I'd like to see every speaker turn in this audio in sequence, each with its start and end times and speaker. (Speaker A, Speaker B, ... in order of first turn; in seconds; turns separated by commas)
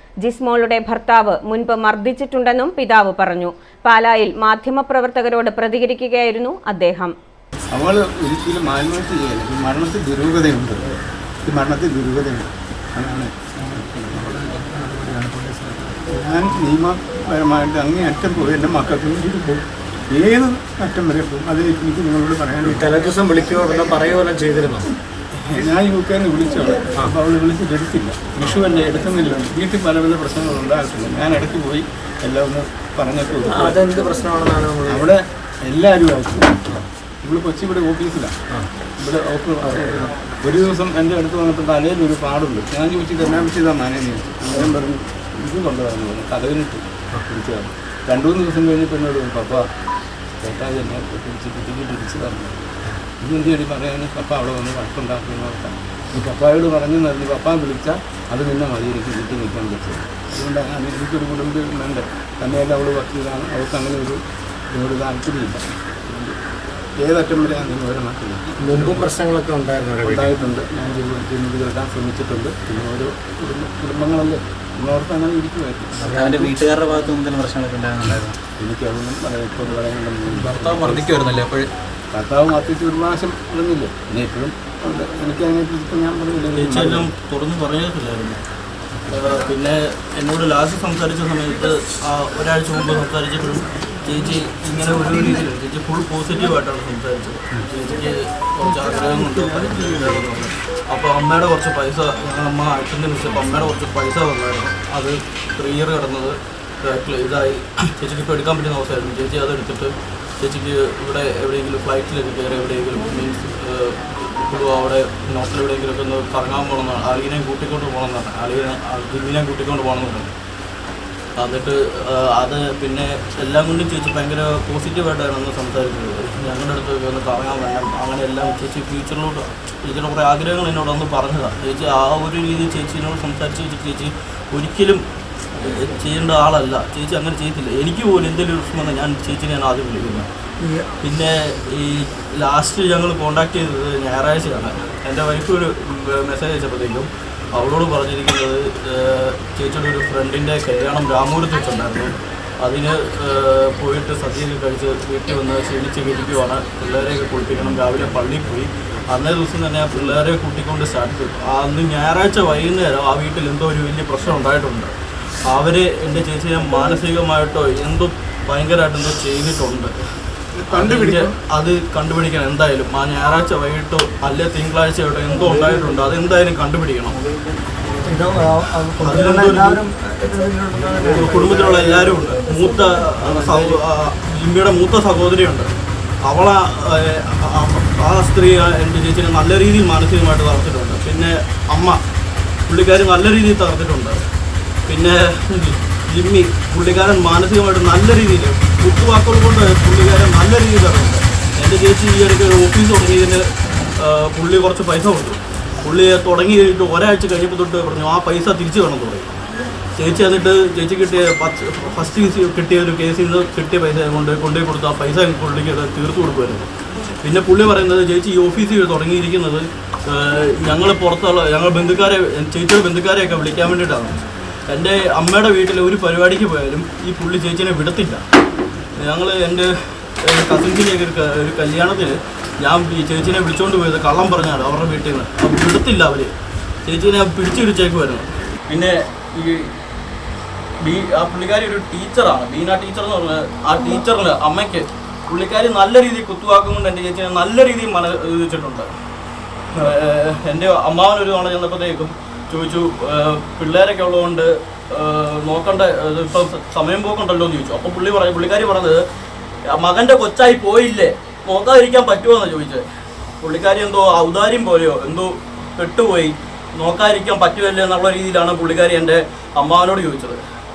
Speaker A: 0.2-7.1, Speaker B: 7.7-22.9, Speaker C: 22.6-24.9, Speaker B: 25.4-33.8, Speaker C: 33.5-35.1, Speaker B: 34.9-38.3, Speaker B: 39.0-49.6, Speaker C: 39.6-40.1, Speaker B: 50.4-52.6, Speaker B: 53.2-66.3, Speaker B: 67.0-69.1, Speaker C: 68.6-70.3, Speaker B: 70.0-76.2, Speaker D: 76.0-78.4, Speaker C: 76.0-76.5, Speaker B: 78.6-81.3, Speaker D: 80.4-81.7, Speaker B: 82.1-87.1, Speaker E: 86.5-88.4, Speaker E: 89.1-120.3, Speaker E: 121.4-135.0, Speaker E: 135.5-140.3, Speaker E: 141.0-164.9, Speaker E: 165.4-169.9, Speaker B: 170.6-171.3, Speaker E: 170.7-177.2, Speaker C: 178.0-181.9, Speaker E: 179.0-179.8, Speaker E: 180.9-185.7, Speaker C: 183.2-183.7, Speaker E: 186.2-192.0, Speaker E: 192.7-194.2, Speaker E: 194.9-209.3, Speaker E: 209.9-216.7, Speaker E: 217.2-228.2, Speaker E: 229.0-236.3, Speaker E: 236.8-239.7, Speaker E: 240.8-248.9, Speaker E: 249.7-259.0, Speaker E: 259.7-262.8, Speaker E: 263.4-270.4